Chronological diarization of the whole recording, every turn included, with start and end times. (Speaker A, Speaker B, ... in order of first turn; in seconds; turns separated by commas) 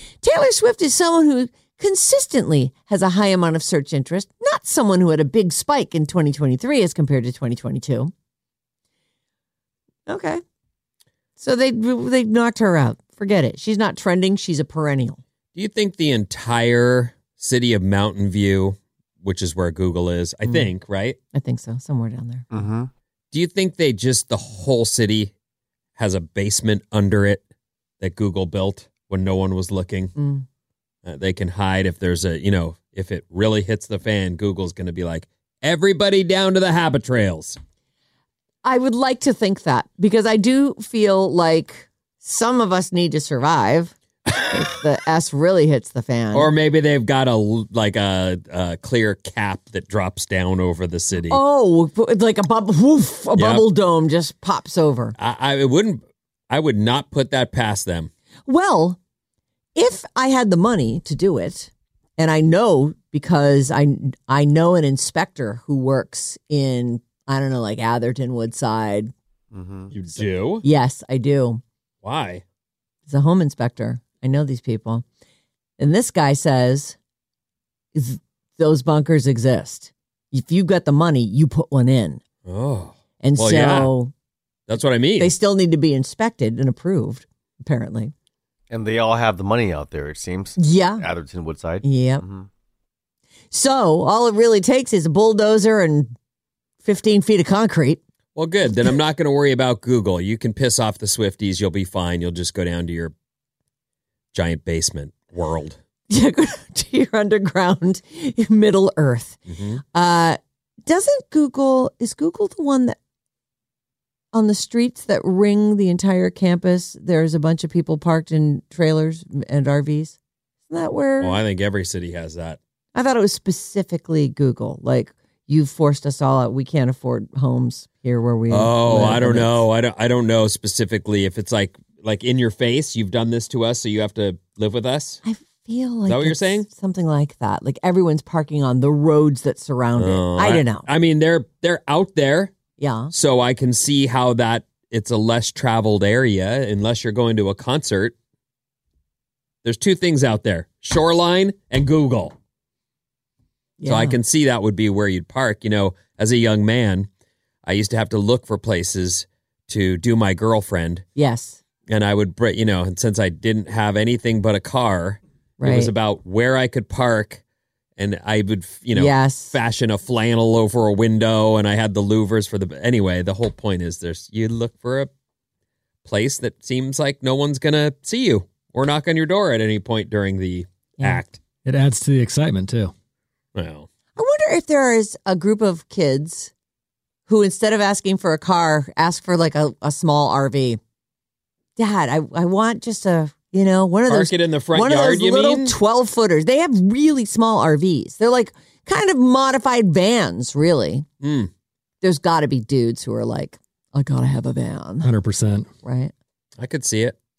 Speaker A: 0.2-8.1, Speaker A: 10.1-10.4, Speaker A: 11.4-15.2, Speaker B: 15.6-21.2, Speaker A: 20.4-20.7, Speaker A: 21.3-22.5, Speaker C: 22.5-22.9, Speaker B: 23.3-25.3, Speaker B: 26.0-27.4, Speaker B: 28.0-30.1, Speaker A: 30.2-30.5, Speaker B: 31.0-37.6, Speaker A: 38.6-46.5, Speaker B: 46.3-51.4, Speaker A: 51.3-55.1, Speaker B: 53.4-53.6, Speaker B: 55.2-58.1, Speaker A: 58.5-59.0, Speaker A: 59.8-69.1, Speaker C: 69.5-69.9, Speaker B: 69.9-70.6, Speaker A: 70.6-71.6, Speaker B: 72.0-72.4, Speaker A: 73.1-75.0, Speaker A: 75.8-77.0, Speaker A: 77.9-82.2, Speaker B: 82.5-83.9, Speaker A: 83.2-84.1, Speaker B: 84.7-85.3, Speaker A: 85.2-88.1, Speaker C: 88.7-92.5, Speaker A: 90.6-91.0, Speaker A: 91.8-92.2, Speaker A: 93.5-96.1, Speaker A: 96.8-98.0, Speaker B: 98.4-103.1, Speaker B: 104.3-105.8, Speaker A: 106.1-109.4, Speaker B: 109.5-109.8, Speaker A: 109.9-113.0, Speaker A: 114.3-120.2, Speaker A: 120.7-121.4, Speaker B: 121.2-122.6, Speaker A: 122.9-129.7, Speaker B: 128.5-135.2, Speaker A: 135.2-140.9, Speaker B: 136.1-136.7, Speaker B: 140.0-142.5, Speaker A: 142.8-143.1, Speaker B: 143.1-148.1, Speaker B: 149.6-152.3, Speaker A: 153.8-154.2, Speaker B: 153.9-157.1, Speaker B: 157.6-161.0, Speaker A: 161.2-161.6, Speaker B: 161.9-167.4, Speaker A: 165.6-165.9, Speaker B: 168.0-175.1, Speaker A: 168.9-169.6, Speaker B: 176.1-181.4, Speaker D: 181.6-182.9, Speaker B: 183.6-183.9, Speaker A: 184.2-186.5, Speaker A: 187.3-190.8, Speaker A: 191.8-201.1, Speaker B: 194.1-195.8, Speaker B: 201.2-201.5, Speaker A: 202.0-205.1, Speaker D: 205.0-205.7, Speaker A: 205.8-206.1, Speaker B: 206.6-207.2